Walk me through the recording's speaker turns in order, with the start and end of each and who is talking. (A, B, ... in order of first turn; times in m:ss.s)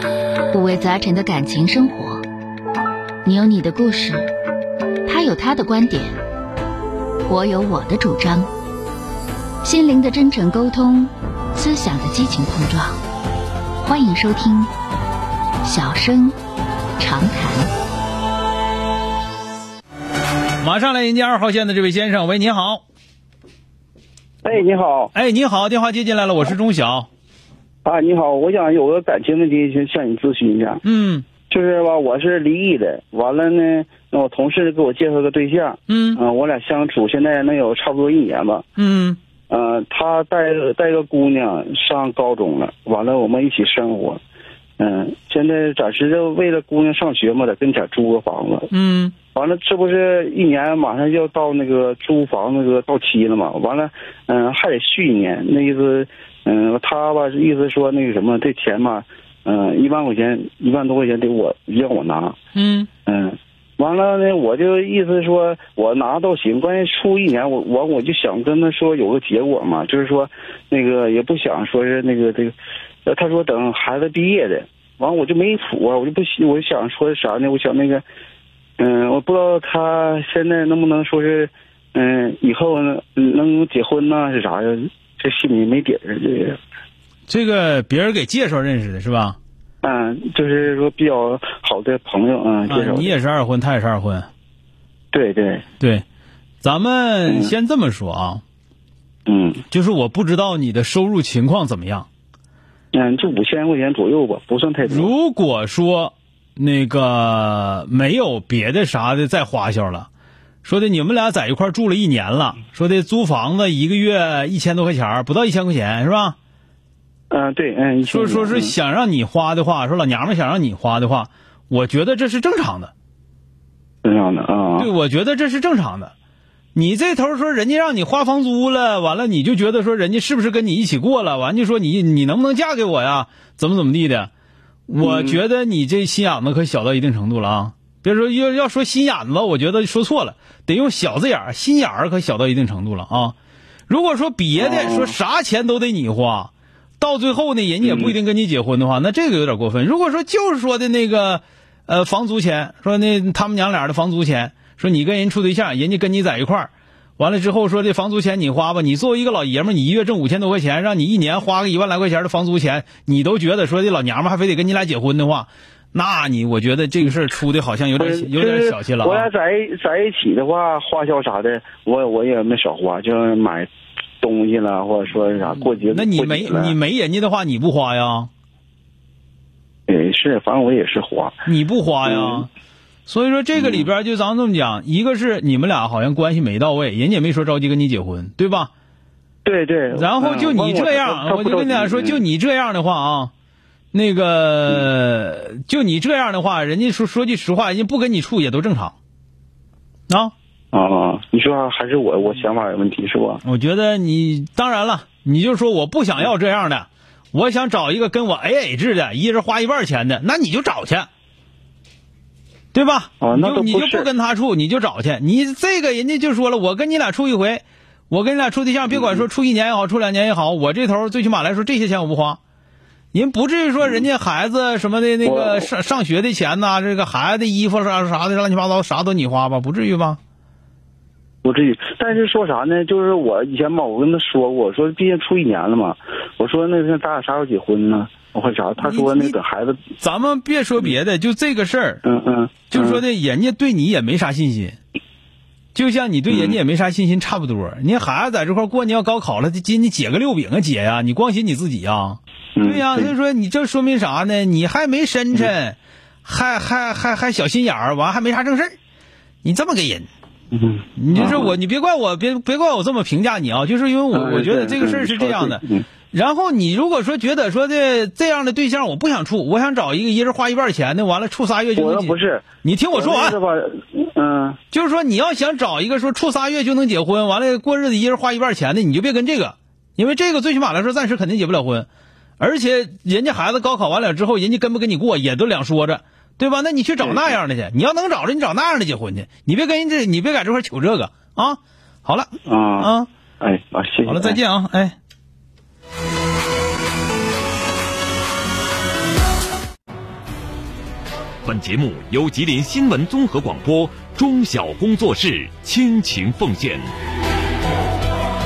0:00.5-0:02.2 A
0:03.2-0:04.3 A
0:05.1-0:06.2 A
0:07.3-0:08.5 A
0:09.6-0:13.0 A
0:13.8-0:14.7 A
0:15.6-0:16.4 A
0:17.0-0:17.7 A
0:20.6-0:22.8 B
0:24.4-0:25.1 C
0:25.1-0:27.1 B
0:27.8-0:30.8 C
0:30.8-0:31.3 B
0:31.5-0:38.6 C
0:35.9-0:36.2 B
0:38.8-0:39.2 B
0:39.5-0:44.2 C
0:44.8-0:48.7 C
0:48.7-0:49.1 B
0:49.3-1:02.4 C
1:02.6-1:02.9 B
1:03.1-1:18.0 C
1:18.8-1:26.6 C
1:27.3-1:29.4 B
1:29.8-1:33.2 C
1:32.7-1:34.3 B
1:35.1-1:35.6 C
1:35.8-1:36.0 B
1:36.6-1:38.4 B
1:37.3-1:37.5 C
1:39.3-1:39.6 C
1:39.7-1:42.1 B
1:42.9-1:45.1 C
1:44.8-1:50.1 B
1:50.6-1:56.4 B
1:57.3-1:58.7 C
1:58.1-2:02.9 B
2:04.0-2:04.9 C
2:04.8-2:06.1 B
2:06.8-2:14.3 B
2:14.9-2:23.4 B
2:15.0-2:15.4 C
2:23.9-2:49.3 B
2:24.6-2:25.2 C
2:27.8-2:28.2 C
2:48.0-2:53.7 C
2:54.2-2:56.8 C
2:55.6-2:58.3 B
2:59.9-3:01.4 C
3:01.5-3:02.5 B
3:02.1-3:02.5 C
3:03.1-3:08.7 B
3:03.6-3:03.9 C
3:09.4-3:12.2 C
3:09.9-3:13.3 B
3:13.9-3:19.0 B
3:20.7-3:23.4 C
3:23.4-3:31.1 B
3:32.7-3:42.4 B
3:33.2-3:34.1 C
3:38.9-3:39.2 C
3:43.1-3:50.2 B
3:45.2-3:45.7 C
3:51.4-3:59.8 C
3:58.8-3:59.4 B
4:00.0-4:02.0 B
4:02.0-4:03.0 C
4:02.7-4:04.8 B
4:05.8-4:18.8 B
4:06.3-4:06.6 C
4:12.6-4:13.1 C
4:19.4-4:20.1 B
4:20.5-4:21.6 C
4:21.0-4:33.4 B
4:24.1-4:25.9 C
4:31.8-4:34.6 C
4:34.7-4:41.9 B
4:42.4-4:53.1 B
4:47.0-4:47.4 C
4:52.5-4:54.4 C
4:54.1-4:55.0 B
5:01.4-5:06.9 D